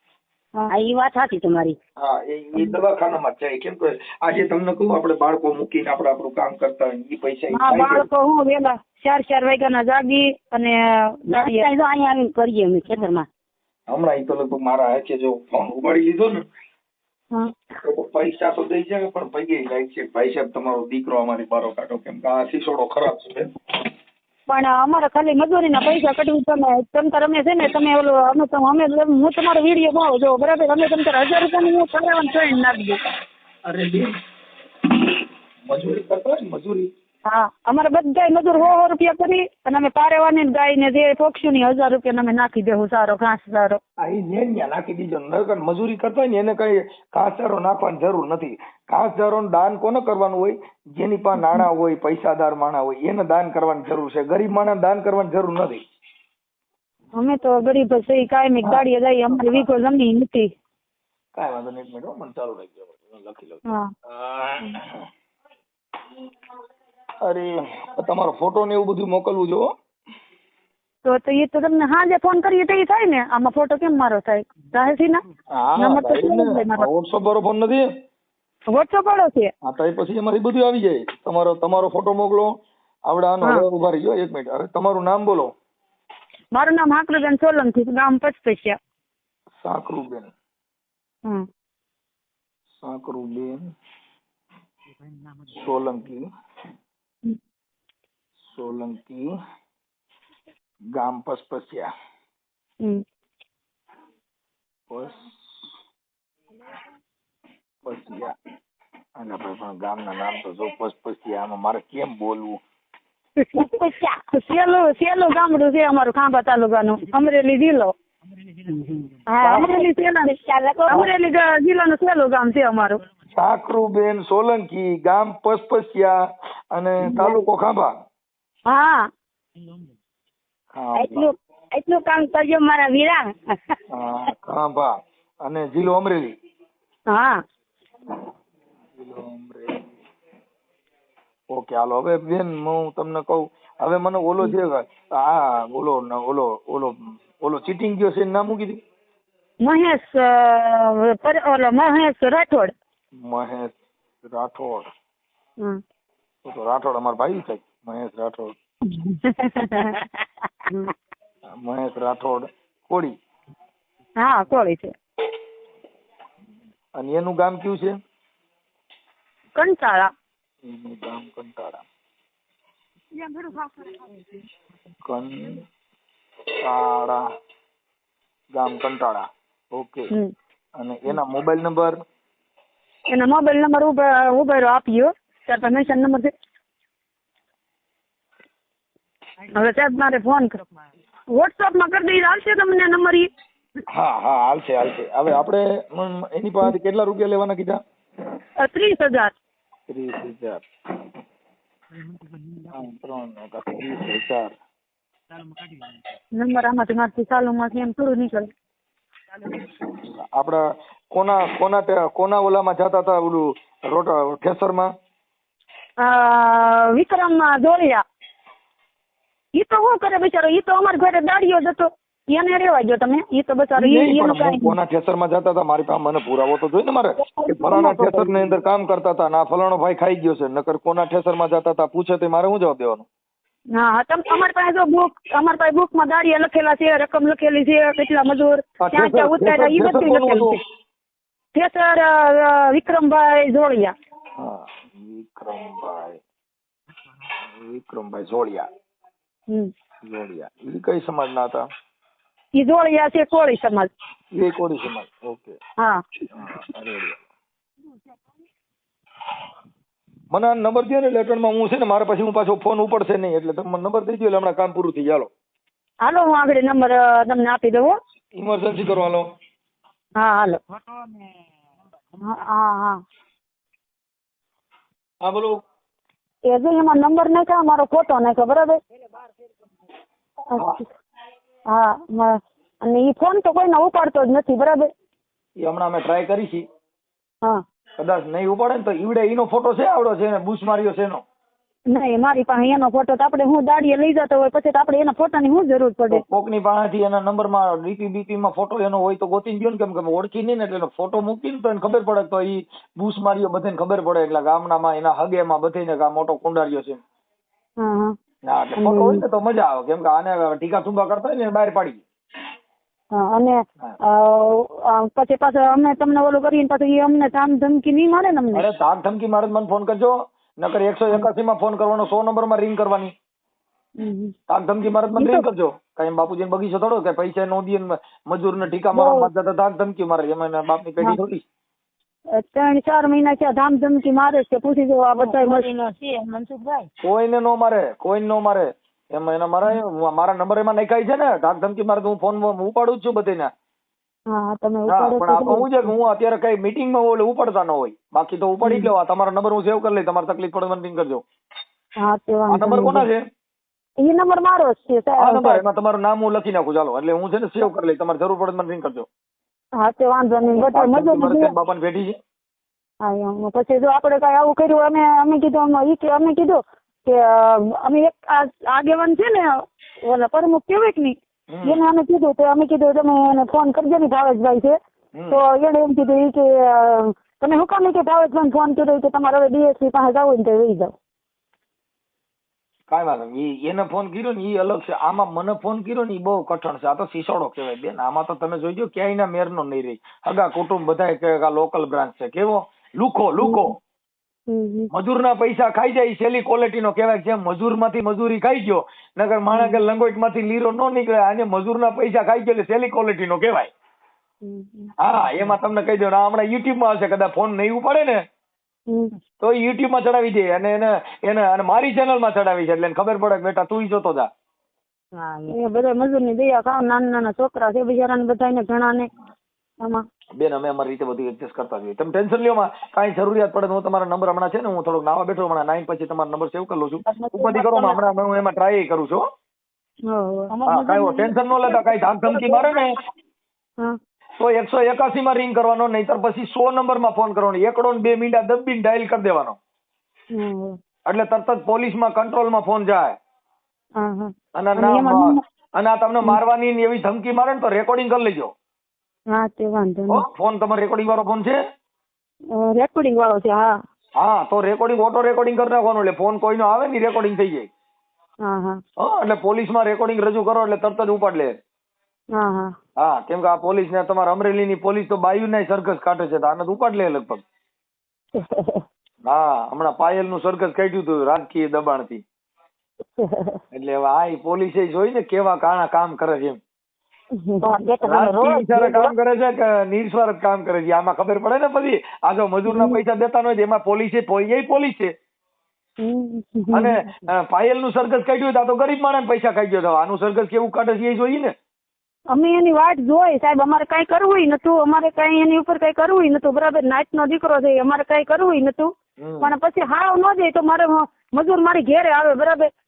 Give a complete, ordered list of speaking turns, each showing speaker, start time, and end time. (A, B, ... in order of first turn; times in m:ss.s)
0:00.7-0:01.8 A
0:02.0-0:08.1 B
0:07.5-0:11.7 C
0:11.3-0:13.3 A
0:13.9-0:16.4 B
0:17.8-0:23.5 B
0:24.5-0:33.0 C
0:33.6-0:34.2 B
0:35.7-0:36.9 B
0:37.2-0:43.8 C
0:44.0-0:55.8 B
0:51.4-0:51.6 C
0:57.2-1:00.5 C
0:58.6-0:59.7 B
1:01.4-1:05.0 B
1:07.2-1:09.7 B
1:11.0-1:15.2 C
1:15.5-1:17.8 B
1:15.8-1:16.9 C
1:18.7-1:19.5 C
1:19.6-1:22.6 B
1:23.1-1:25.5 B
1:26.5-1:28.8 C
1:29.6-1:30.3 B
1:32.8-1:33.7 B
1:35.5-1:36.2 B
1:38.5-1:39.3 B
1:40.9-1:41.9 B
1:44.9-1:45.6 B
1:47.8-1:48.4 B
1:49.2-1:52.6 B
1:53.4-1:53.7 C
1:53.6-1:54.2 A
1:54.3-1:57.9 C
1:58.7-2:01.1 A
1:59.3-2:00.4 C
2:00.9-2:03.0 C
2:03.3-2:06.2 B
2:06.7-2:07.9 B
2:08.7-2:09.1 C
2:10.7-2:11.3 B
2:11.0-2:13.8 A
2:13.9-2:16.3 B
2:17.1-2:17.4 C
2:18.9-2:19.9 B
2:21.5-2:28.8 B
2:29.6-2:32.7 C
2:33.2-2:34.9 B
2:36.4-2:38.6 B
2:38.9-2:40.1 C
2:41.5-2:43.2 B
2:44.2-2:44.9 C
2:47.0-2:48.0 B
2:49.6-2:50.1 C
2:50.6-2:51.8 B
2:53.1-2:54.4 C
2:55.0-2:55.6 B
2:56.6-2:57.2 B
2:58.5-3:00.1 B
3:00.8-3:02.0 B
3:03.1-3:06.3 C
3:09.5-3:10.6 C
3:11.3-3:13.3 C
3:13.9-3:17.8 B
3:18.6-3:19.3 C
3:19.9-3:20.6 B
3:22.7-3:24.6 B
3:26.4-3:28.5 C
3:30.0-3:34.9 B
3:36.0-3:38.0 C
3:39.6-3:44.8 C
3:43.8-3:53.1 B
3:47.2-3:48.6 C
3:53.7-4:00.6 C
3:58.8-4:00.6 B
4:01.6-4:03.9 C
4:04.4-4:06.2 B
4:07.4-4:08.7 B
4:10.0-4:11.6 B
4:12.6-4:13.9 C
4:14.3-4:15.6 B
4:16.3-4:17.2 B
4:20.3-4:25.3 B
4:26.0-4:27.9 C
4:28.4-4:29.3 B
4:30.2-4:30.6 C
4:32.2-4:33.0 C
4:35.2-4:35.6 B
4:36.5-4:38.8 C
4:40.5-4:40.8 C
4:40.6-4:40.8 B
4:41.7-4:44.9 C
4:45.6-4:46.6 B
4:48.0-4:51.2 B
4:51.9-4:56.2 C
4:56.1-5:07.0 B
5:07.8-5:08.2 C
5:08.4-5:12.0 B
5:08.8-5:09.2 C
5:13.1-5:18.7 C
5:18.5-5:23.1 B
5:24.0-5:24.3 C
5:24.5-5:31.4 B
5:25.2-5:25.5 C
5:28.9-5:29.3 C
5:32.3-5:35.7 C
5:35.2-5:36.9 A
5:37.0-5:43.5 B
5:44.3-5:45.9 C
5:44.9-5:51.2 B
5:48.6-5:48.9 C
5:52.0-5:53.1 C
5:52.5-5:53.3 B
5:54.0-5:55.6 C
5:55.2-5:59.1 B
5:59.8-6:01.5 C
6:00.7-6:02.2 B
6:03.0-6:14.8 C
6:11.5-6:11.8 B
6:15.2-6:15.4 B
6:15.3-6:20.9 C
6:22.9-6:33.8 B
6:33.4-6:33.7 C
6:34.5-6:34.9 C
6:34.9-6:43.7 B
6:39.5-6:39.8 C
6:44.4-6:44.9 C
6:45.0-6:48.2 B
6:48.9-6:49.2 C
6:49.4-6:54.3 B
6:55.2-6:55.6 A
6:55.5-6:59.1 C
7:00.4-7:09.2 B
7:07.1-7:08.0 C
7:10.1-7:12.8 C
7:10.7-7:13.0 B
7:14.4-7:19.6 B
7:20.3-7:20.8 C
7:21.1-7:23.2 B
7:24.0-7:25.4 C
7:24.6-7:28.5 B
7:29.3-7:30.3 C
7:30.1-7:31.6 B
7:32.5-7:33.7 C
7:34.2-7:37.7 B
7:38.4-7:38.8 C
7:39.0-7:41.6 B
7:42.3-7:42.7 C
7:43.0-7:47.4 B
7:48.4-7:48.8 C
7:49.2-7:52.2 B
7:53.7-7:56.6 B
7:57.3-7:57.7 C
7:57.6-7:59.1 A
7:58.0-8:05.1 B
8:02.7-8:03.0 C
8:06.0-8:07.0 C
8:06.7-8:11.5 B
8:12.3-8:22.7 C
8:19.2-8:19.5 B